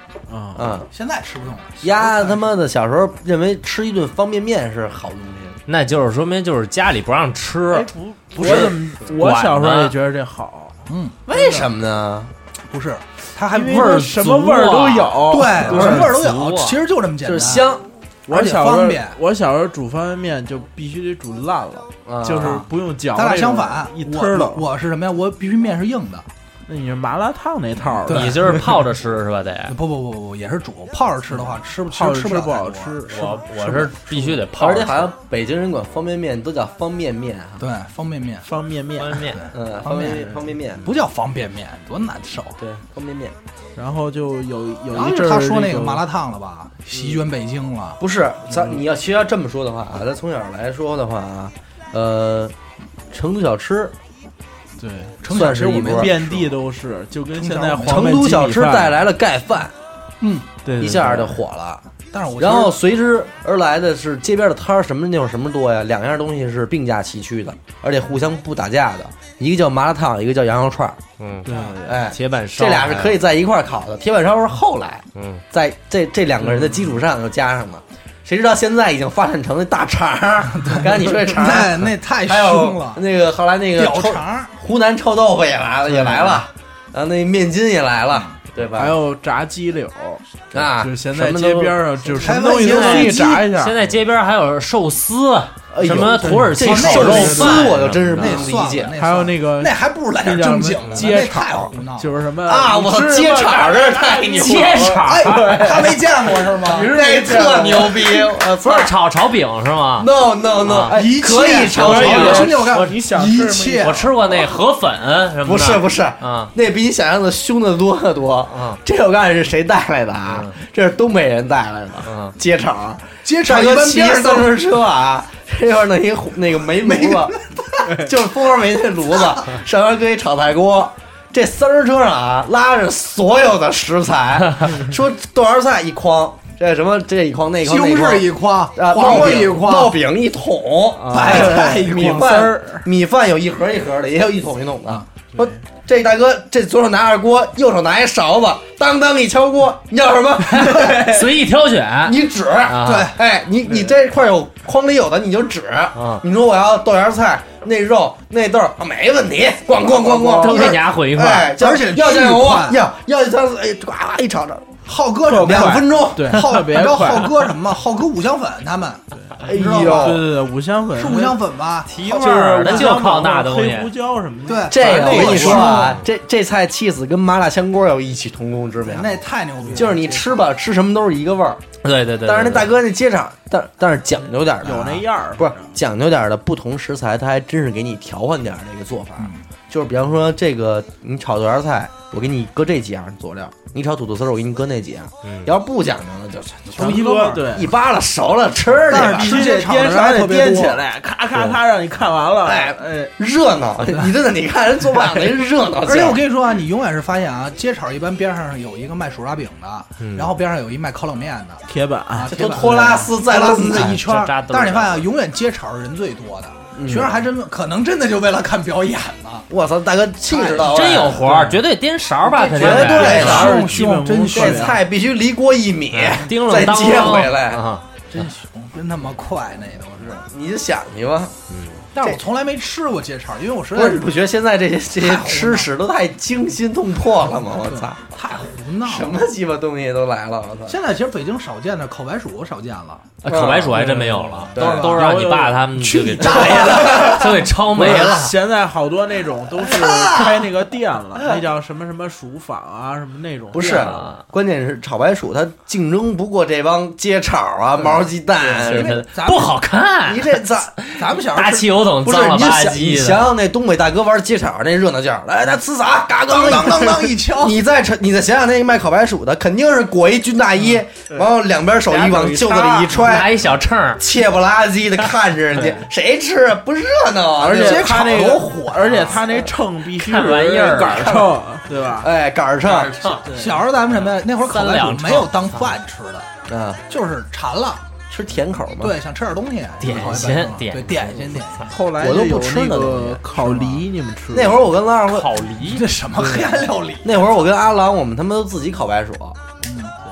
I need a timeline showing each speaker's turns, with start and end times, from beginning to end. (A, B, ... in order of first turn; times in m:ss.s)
0:00.3-0:00.7 A
0:00.6-0:00.9 B
0:00.9-0:02.5 C
0:01.8-0:05.6 B
0:05.7-0:10.0 D
0:07.7-0:11.7 A
0:08.4-0:08.7 B
0:10.9-0:11.2 C
0:11.3-0:12.3 B
0:12.7-0:14.4 C
0:13.5-0:16.1 A
0:13.6-0:16.8 D
0:15.2-0:17.7 C
0:17.2-0:17.8 B
0:18.3-0:24.6 A
0:18.3-0:19.2 C
0:22.0-0:22.6 B
0:22.4-0:26.2 C
0:26.6-0:28.7 A
0:27.8-0:28.6 C
0:28.1-0:29.7 D
0:29.7-0:33.0 C
0:31.9-0:34.3 A
0:33.0-0:35.1 D
0:33.7-0:34.2 C
0:34.5-0:37.6 B
0:37.6-0:38.5 C
0:38.4-0:39.4 A
0:39.0-0:39.4 D
0:39.3-0:42.6 C
0:39.5-0:40.9 B
0:42.6-0:43.4 B
0:43.8-0:46.0 A
0:44.9-0:48.0 C
0:48.0-0:52.5 B
0:48.5-0:48.8 A
0:53.1-0:53.9 B
0:54.8-0:55.2 A
0:55.2-0:56.6 C
0:55.3-0:56.1 B
0:55.9-0:59.0 A
0:57.3-0:58.2 C
0:57.8-0:59.7 B
1:00.2-1:00.5 C
1:00.6-1:01.4 A
1:00.8-1:01.8 B
1:02.1-1:02.8 C
1:02.4-1:11.0 B
1:11.2-1:11.5 D
1:11.4-1:12.0 A
1:11.5-1:11.8 C
1:11.8-1:29.0 B
1:12.0-1:13.2 D
1:15.1-1:15.4 D
1:20.6-1:23.0 C
1:23.7-1:24.5 C
1:25.9-1:26.4 A
1:28.8-1:33.8 A
1:30.5-1:32.2 B
1:32.2-1:33.5 C
1:32.6-1:38.5 D
1:35.7-1:39.0 B
1:35.8-1:37.6 A
1:36.6-1:42.1 C
1:39.0-1:48.3 A
1:42.4-1:45.0 B
1:44.3-1:45.7 D
1:45.0-1:47.0 C
1:46.6-1:48.9 B
1:48.6-1:50.1 D
1:50.0-1:52.5 B
1:50.6-1:51.0 D
1:50.8-1:54.1 C
1:51.7-1:54.1 A
1:51.8-1:53.0 D
1:53.8-1:56.5 D
1:55.4-2:31.2 B
1:58.5-1:58.8 D
2:00.3-2:00.6 D
2:02.0-2:02.3 D
2:03.2-2:04.5 C
2:06.8-2:08.0 C
2:17.6-2:20.0 C
2:21.0-2:21.5 D
2:21.1-2:22.5 C
2:21.2-2:22.9 A
2:30.4-2:33.1 D
2:32.0-2:44.7 B
2:32.8-2:33.2 C
2:33.6-2:33.9 A
2:35.9-2:36.2 D
2:40.0-2:40.8 C
2:40.4-2:41.5 D
2:41.4-2:42.8 C
2:44.8-2:50.3 C
2:45.3-2:47.3 A
2:45.3-2:46.4 B
2:49.1-2:51.4 A
2:49.4-2:50.3 B
2:50.9-2:53.0 C
2:51.8-2:53.9 D
2:52.0-2:55.8 A
2:54.4-2:56.0 C
2:54.7-2:59.1 B
2:55.5-2:56.0 D
2:58.8-3:00.4 C
2:59.6-2:59.9 A
2:59.7-3:01.6 B
3:01.8-3:02.7 D
3:02.2-3:16.9 B
3:04.6-3:05.7 A
3:09.2-3:09.4 C
3:15.2-3:15.5 D
3:16.6-3:17.6 C
3:16.8-3:17.7 A
3:17.5-3:19.4 B
3:18.9-3:23.1 A
3:18.9-3:20.8 C
3:22.4-3:26.2 B
3:25.8-3:39.5 C
3:30.0-3:30.3 D
3:31.7-3:32.3 A
3:32.2-3:34.0 B
3:33.6-3:35.0 D
3:36.7-3:37.1 B
3:39.5-3:41.2 B
3:40.3-3:41.1 C
3:40.6-3:43.6 D
3:41.2-3:41.6 A
3:42.2-3:44.8 C
3:42.6-3:43.6 B
3:42.9-3:44.8 A
3:44.3-3:47.6 B
3:45.9-3:47.8 D
3:48.1-3:50.2 C
3:50.1-3:51.3 B
3:51.5-3:51.8 D
3:51.9-3:54.1 C
3:53.7-3:58.0 B
3:55.0-3:55.7 C
3:57.5-3:59.2 C
3:58.8-4:00.8 B
4:00.7-4:03.1 C
4:03.2-4:08.3 D
4:03.2-4:03.8 B
4:03.7-4:06.9 A
4:04.5-4:05.0 C
4:04.5-4:05.0 B
4:05.8-4:08.3 C
4:06.7-4:07.2 B
4:07.7-4:14.1 A
4:09.6-4:10.5 C
4:13.5-4:19.0 B
4:13.6-4:14.2 D
4:18.4-4:19.6 C
4:18.6-4:23.2 D
4:20.0-4:20.7 B
4:20.9-4:21.8 C
4:22.0-4:33.4 B
4:26.3-4:27.6 C
4:30.6-4:31.3 A
4:31.8-4:33.2 A
4:32.9-4:34.0 D
4:34.0-4:39.4 B
4:35.5-4:35.8 A
4:37.4-4:42.1 A
4:37.5-4:39.1 C
4:39.9-4:41.3 D
4:42.0-4:43.1 B
4:42.6-4:43.3 D
4:43.2-4:43.6 A
4:43.3-4:46.3 C
4:44.0-4:45.7 D
4:46.5-4:46.8 B
4:46.9-4:47.8 C
4:48.1-4:49.0 B
4:48.8-4:51.7 C
4:49.8-4:51.7 D
4:51.7-4:54.7 A
4:52.0-4:53.2 B
4:53.4-4:53.8 C
4:54.3-4:55.3 B
4:55.1-4:55.9 D
4:55.6-4:57.4 C
4:56.2-4:56.5 A
4:57.0-4:59.4 B
4:59.6-4:59.9 C